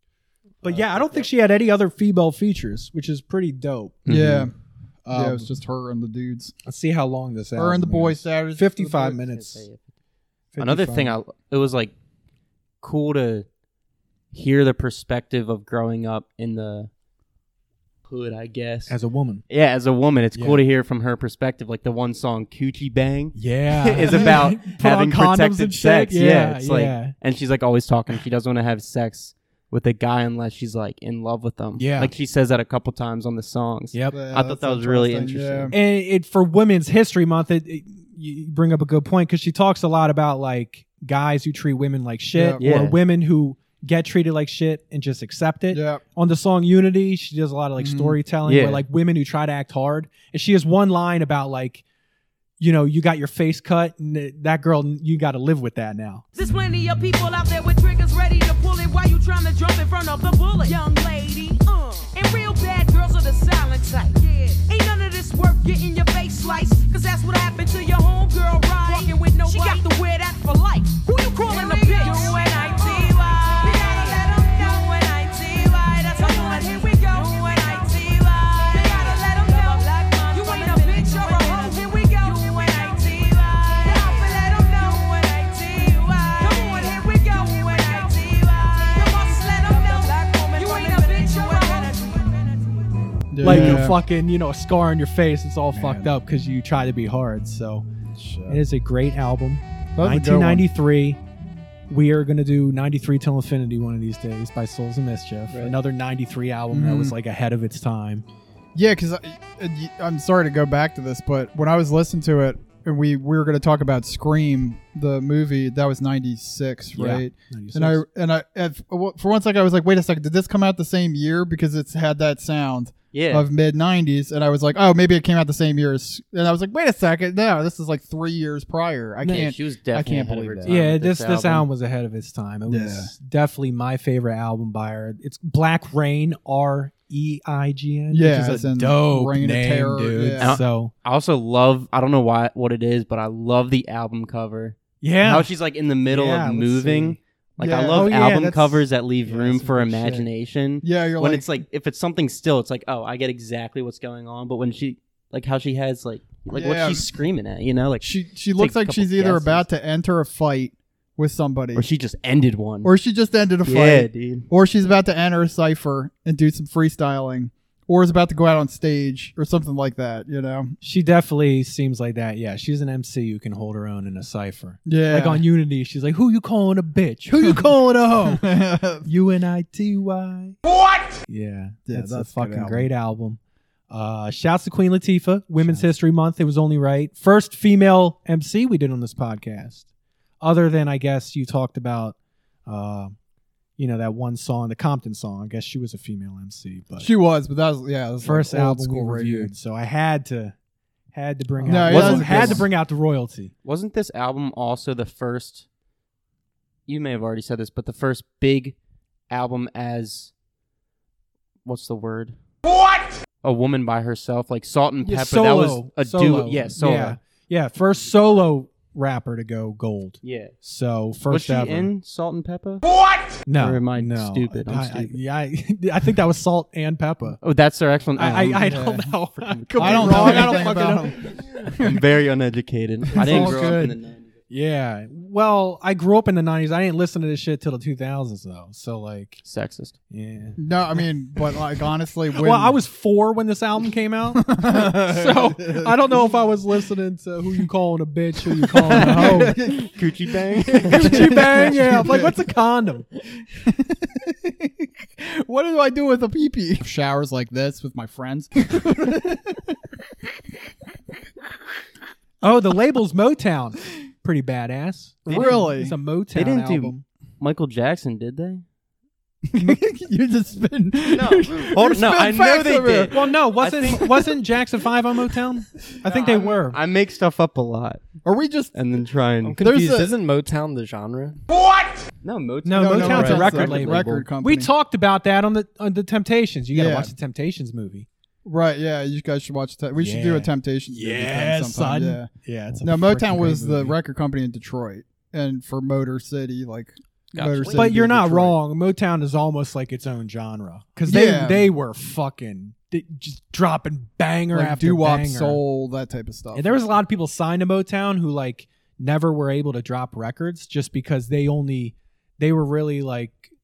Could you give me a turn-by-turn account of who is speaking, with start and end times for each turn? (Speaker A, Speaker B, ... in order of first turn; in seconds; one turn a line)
Speaker A: 0.6-4.1
Speaker B: 0.9-1.2
Speaker B: 4.1-4.5
Speaker C: 4.1-4.5
Speaker A: 5.0-5.5
Speaker C: 5.1-6.5
Speaker A: 6.7-9.7
Speaker C: 7.5-9.2
Speaker B: 9.2-9.8
Speaker A: 10.5-11.2
Speaker B: 10.6-11.9
Speaker B: 12.8-13.5
Speaker B: 14.3-16.9
Speaker B: 18.1-18.9
Speaker A: 18.9-19.4
Speaker B: 19.5-35.8
Speaker A: 20.3-20.6
Speaker A: 23.4-27.1
Speaker A: 31.8-32.1
Speaker C: 34.1-35.7
Speaker A: 35.7-51.8
Speaker C: 42.3-42.6
Speaker B: 42.6-43.0
Speaker C: 45.7-46.0
Speaker C: 47.8-48.2
Speaker B: 48.5-48.8
Speaker A: 52.6-56.2
Speaker D: 56.4-92.7
Speaker C: 93.3-94.0
Speaker A: 93.4-97.9
Speaker B: 93.4-93.9
Speaker C: 95.7-96.1
Speaker C: 98.2-98.6
Speaker A: 98.5-101.2
Speaker C: 100.0-100.7
Speaker A: 101.9-108.2
Speaker C: 106.7-107.2
Speaker C: 108.8-130.8
Speaker A: 117.0-118.0
Speaker B: 123.1-123.5
Speaker B: 129.2-131.7
Speaker A: 130.7-140.9
Speaker C: 132.7-133.1
Speaker C: 138.1-140.6
Speaker B: 140.4-159.7
Speaker A: 145.0-145.5
Speaker A: 146.1-147.2
Speaker C: 147.6-148.2
Speaker A: 147.9-150.3
Speaker C: 150.8-151.6
Speaker C: 156.5-157.1
Speaker C: 158.0-161.9
Speaker B: 161.8-162.9
Speaker C: 162.8-170.7
Speaker B: 163.7-164.5
Speaker A: 170.8-178.5
Speaker C: 174.9-175.4
Speaker C: 177.4-177.7
Speaker C: 178.2-179.1
Speaker A: 179.0-180.6
Speaker A: 181.3-183.4
Speaker C: 181.9-182.9
Speaker A: 183.9-189.8
Speaker C: 185.6-185.9
Speaker A: 190.4-192.2
Speaker A: 192.7-193.2
Speaker A: 193.8-197.1
Speaker C: 197.0-199.5
Speaker A: 198.2-200.6
Speaker A: 201.1-203.5
Speaker E: 201.6-201.9
Speaker C: 201.7-202.7
Speaker B: 201.7-202.7
Speaker B: 203.6-205.7
Speaker B: 206.9-208.8
Speaker B: 209.3-210.3
Speaker B: 211.7-212.4
Speaker B: 213.4-217.2
Speaker A: 215.0-221.9
Speaker B: 220.2-220.5
Speaker B: 221.3-222.9
Speaker A: 223.5-227.4
Speaker B: 223.6-225.2
Speaker B: 227.4-234.3
Speaker A: 228.2-231.4
Speaker C: 228.6-229.1
Speaker C: 229.8-232.0
Speaker C: 233.1-233.8
Speaker A: 233.1-234.0
Speaker A: 234.5-239.4
Speaker B: 239.4-240.0
Speaker A: 240.1-241.0
Speaker C: 240.6-242.8
Speaker A: 242.4-249.6
Speaker C: 244.3-246.3
Speaker C: 248.6-250.0
Speaker B: 248.9-251.8
Speaker C: 250.6-252.3
Speaker A: 250.9-253.1
Speaker C: 253.6-259.8
Speaker A: 262.4-267.1
Speaker B: 265.3-265.6
Speaker C: 265.3-265.9
Speaker B: 266.4-268.6
Speaker C: 269.5-273.3
Speaker B: 271.1-274.3
Speaker A: 273.1-276.8
Speaker B: 276.1-278.1
Speaker C: 278.2-278.7
Speaker B: 278.7-279.6
Speaker E: 279.4-281.4
Speaker C: 279.6-280.1
Speaker C: 281.6-281.9
Speaker B: 282.2-283.7
Speaker A: 282.7-288.1
Speaker C: 282.7-284.7
Speaker E: 283.1-284.2
Speaker C: 286.7-287.1
Speaker C: 288.4-292.3
Speaker A: 290.0-294.0
Speaker C: 292.8-298.6
Speaker B: 297.4-297.9
Speaker A: 297.7-305.6
Speaker C: 301.1-301.7
Speaker C: 304.5-306.8
Speaker A: 306.5-313.5